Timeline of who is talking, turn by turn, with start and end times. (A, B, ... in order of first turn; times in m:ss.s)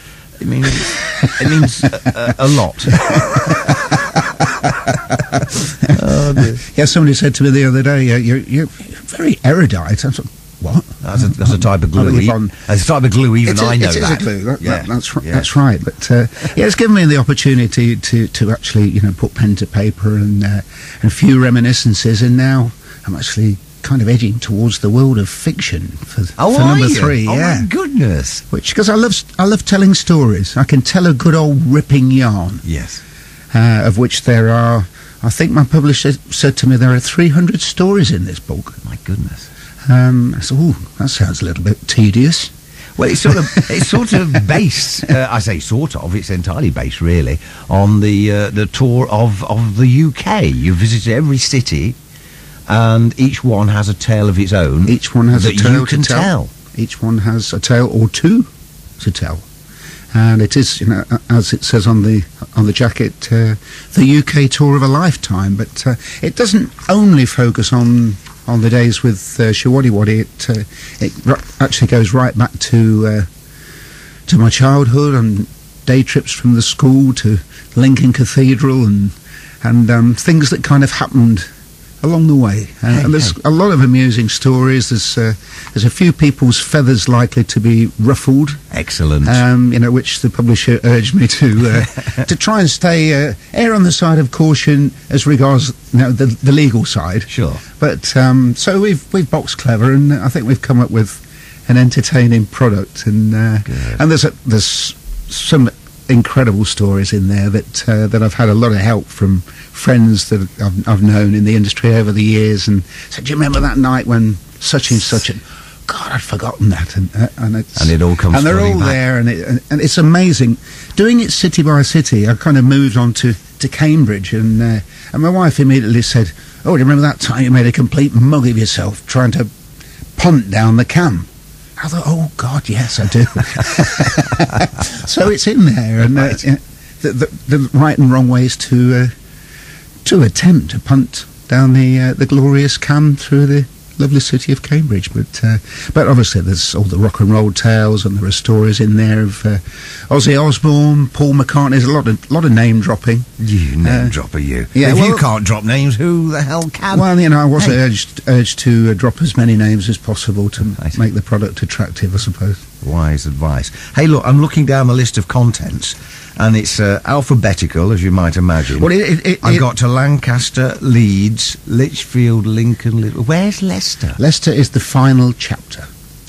0:00.4-0:03.8 A
0:00.8-0:02.2 B
0:02.9-0:12.5 B
0:05.9-0:06.6 A
0:11.0-0:15.5 A
0:13.4-0:27.7 B
0:26.4-0:28.4 A
0:28.5-0:32.6 B
0:32.6-0:33.0 A
0:33.5-0:38.8 B
0:38.8-0:39.5 A
0:39.9-0:42.5 B
0:43.0-0:52.0 A
0:43.3-0:44.1 B
0:52.7-0:56.5 A
0:54.9-0:59.4 B
1:00.1-1:13.3 B
1:14.3-1:21.5 B
1:22.0-1:28.6 B
1:22.9-1:23.4 A
1:28.7-1:29.4 A
1:29.2-2:09.5 B
1:37.3-1:37.6 A
1:43.7-1:44.0 A
1:57.8-1:59.0 A
2:10.2-2:19.1 B
2:20.0-2:33.3 B
2:33.4-2:37.8 A
2:33.8-2:34.2 B
2:34.7-2:35.3 B
2:36.9-2:42.6 B
2:42.8-2:54.2 A
2:48.8-2:49.7 B
2:54.2-2:55.9 B